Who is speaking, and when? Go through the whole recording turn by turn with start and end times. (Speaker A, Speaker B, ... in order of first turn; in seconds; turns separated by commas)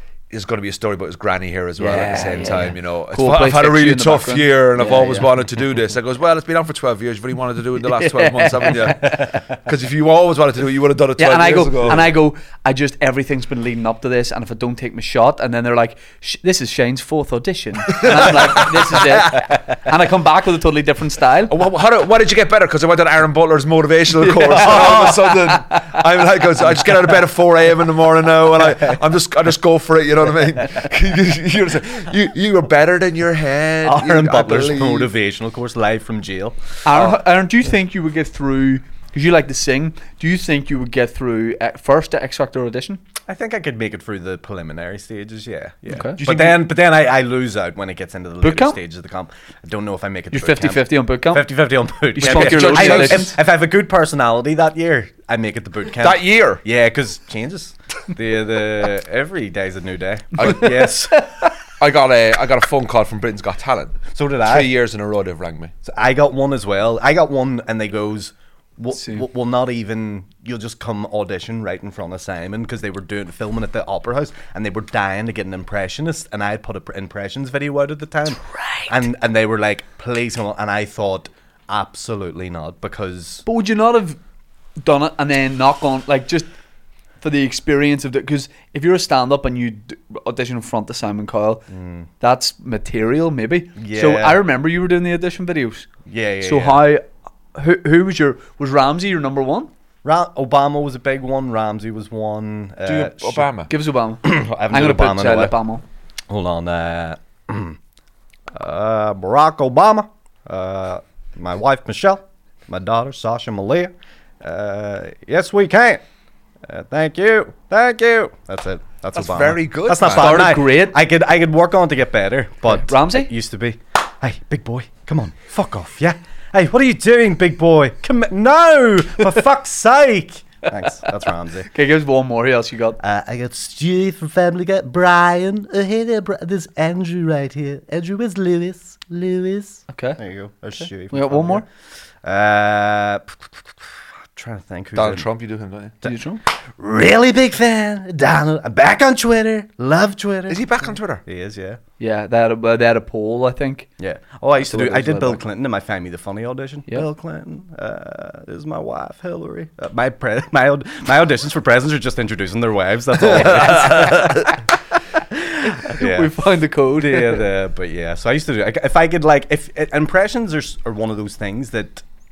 Speaker A: 0.3-12.1, Speaker B: 1.8-5.3, Speaker C: 1.9-2.8, Speaker B: 7.8-9.2, Speaker C: 9.1-9.5, Speaker B: 11.2-21.5, Speaker A: 17.9-19.1, Speaker C: 19.1-19.4, Speaker A: 21.5-35.1, Speaker B: 24.2-26.0, Speaker C: 24.5-25.3, Speaker C: 28.6-29.0, Speaker C: 33.8-36.8, Speaker B: 36.9-43.0, Speaker A: 36.9-37.2, Speaker C: 43.3-61.2, Speaker B: 45.9-46.2, Speaker A: 46.2-46.6, Speaker B: 48.4-48.8, Speaker B: 50.3-53.4, Speaker A: 52.2-53.4, Speaker A: 56.0-56.6, Speaker A: 60.4-60.9, Speaker B: 60.4-61.5, Speaker A: 61.8-65.7, Speaker C: 64.1-64.8, Speaker C: 65.8-83.5, Speaker B: 68.9-69.2, Speaker B: 78.6-78.9, Speaker B: 83.5-84.2, Speaker B: 84.8-86.5, Speaker B: 87.2-91.7, Speaker C: 91.7-92.1, Speaker B: 92.2-95.9, Speaker C: 93.8-94.4, Speaker C: 96.0-96.8, Speaker B: 96.4-99.7, Speaker C: 100.0-103.5, Speaker A: 102.8-103.7, Speaker B: 103.7-105.8, Speaker C: 104.2-105.6, Speaker C: 106.3-107.8, Speaker C: 108.5-116.0, Speaker C: 116.6-131.7, Speaker A: 119.2-120.5, Speaker B: 120.0-121.0, Speaker B: 122.7-123.3, Speaker B: 131.7-133.0, Speaker C: 133.0-141.7, Speaker B: 139.9-140.2, Speaker B: 140.8-141.7, Speaker C: 142.2-145.3, Speaker A: 144.9-145.9, Speaker C: 146.0-151.8, Speaker B: 146.0-146.4, Speaker A: 150.5-151.2, Speaker B: 152.0-153.9, Speaker C: 154.0-164.6, Speaker B: 154.6-155.4, Speaker A: 163.3-164.5, Speaker C: 165.2-166.4, Speaker B: 165.7-167.5, Speaker C: 166.9-172.0